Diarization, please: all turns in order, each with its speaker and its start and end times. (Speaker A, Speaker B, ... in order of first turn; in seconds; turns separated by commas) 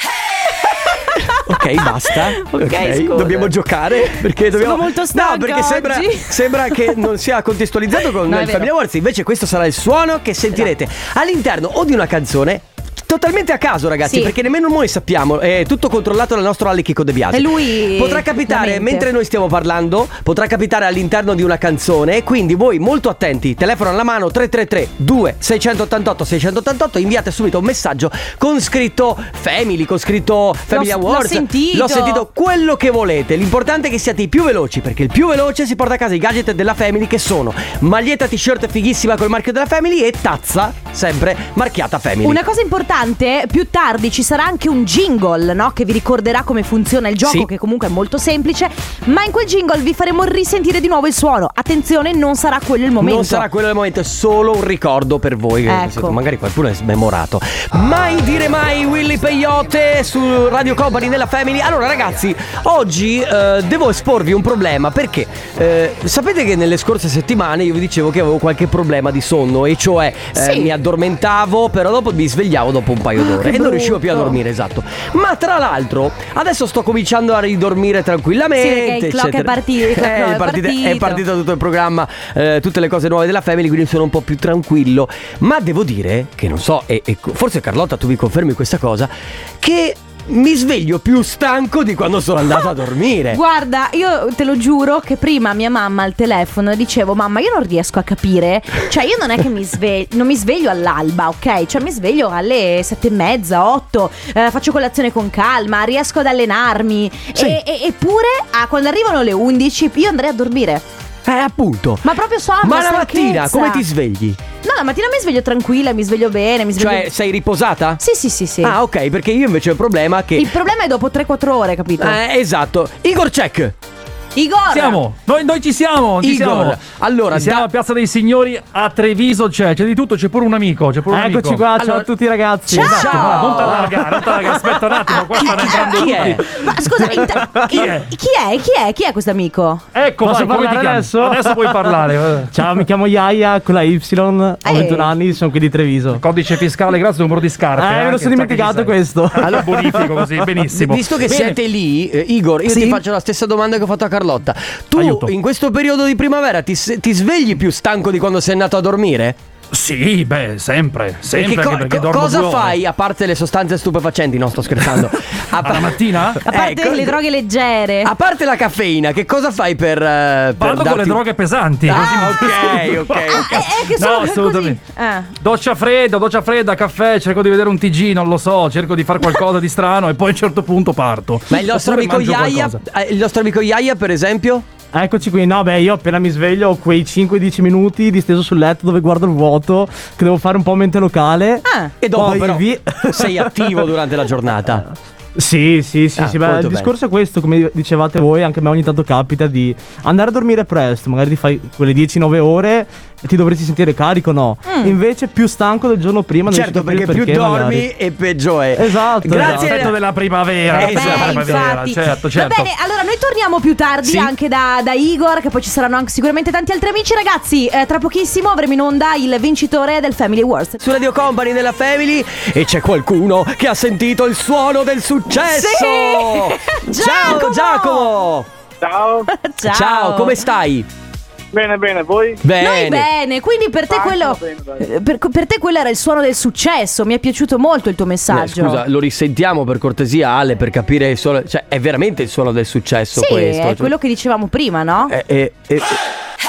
Speaker A: 1.0-7.0, Speaker B: 1.4-42.4, Speaker A: 8.2-8.7, Speaker A: 14.0-14.3, Speaker A: 17.3-19.1, Speaker A: 30.7-32.2, Speaker A: 42.2-53.5, Speaker B: 47.2-47.5, Speaker B: 53.0-93.4, Speaker A: 55.7-56.2, Speaker A: 70.3-70.7, Speaker A: 73.2-74.4, Speaker A: 78.6-81.2, Speaker A: 93.3-110.8, Speaker B: 111.2-112.0, Speaker A: 112.0-113.8, Speaker B: 112.6-114.4, Speaker A: 114.6-117.1, Speaker B: 116.8-118.0, Speaker A: 118.0-118.7, Speaker B: 118.6-120.5, Speaker A: 120.3-122.2, Speaker B: 122.0-123.7, Speaker A: 124.3-125.0, Speaker C: 124.7-131.6, Speaker B: 126.2-127.6, Speaker D: 131.1-133.9, Speaker B: 131.8-132.1, Speaker A: 132.7-133.6, Speaker C: 132.8-136.4, Speaker B: 132.8-134.0, Speaker A: 135.1-139.8, Speaker B: 135.4-136.4, Speaker C: 137.7-138.1, Speaker C: 139.9-142.5, Speaker D: 140.2-141.9, Speaker D: 142.5-146.2, Speaker A: 144.6-145.1, Speaker C: 146.1-151.5, Speaker D: 147.8-150.3, Speaker B: 150.7-159.4, Speaker D: 152.7-153.0, Speaker C: 154.9-155.3, Speaker C: 159.7-162.8, Speaker B: 161.3-167.2, Speaker C: 165.6-166.4, Speaker A: 166.5-168.1, Speaker B: 168.0-171.2, Speaker C: 170.6-174.8, Speaker B: 171.8-173.6, Speaker A: 173.3-175.3, Speaker C: 175.4-182.8, Speaker B: 181.5-184.6, Speaker D: 184.9-193.8, Speaker A: 191.7-191.9, Speaker B: 192.0-194.8, Speaker D: 195.3-207.9, Speaker B: 196.2-196.9, Speaker A: 204.6-204.9, Speaker B: 206.5-210.0, Speaker D: 208.8-209.9, Speaker C: 209.3-212.7, Speaker B: 210.7-211.7, Speaker A: 210.7-220.8, Speaker B: 214.0-214.3, Speaker B: 220.8-228.5, Speaker A: 225.4-228.1, Speaker E: 228.8-229.3, Speaker A: 229.3-230.4, Speaker B: 229.7-230.9, Speaker E: 231.5-232.4, Speaker B: 232.4-233.1, Speaker A: 232.6-238.8, Speaker E: 233.9-234.9, Speaker B: 238.3-243.9, Speaker A: 243.1-245.1, Speaker B: 245.1-246.0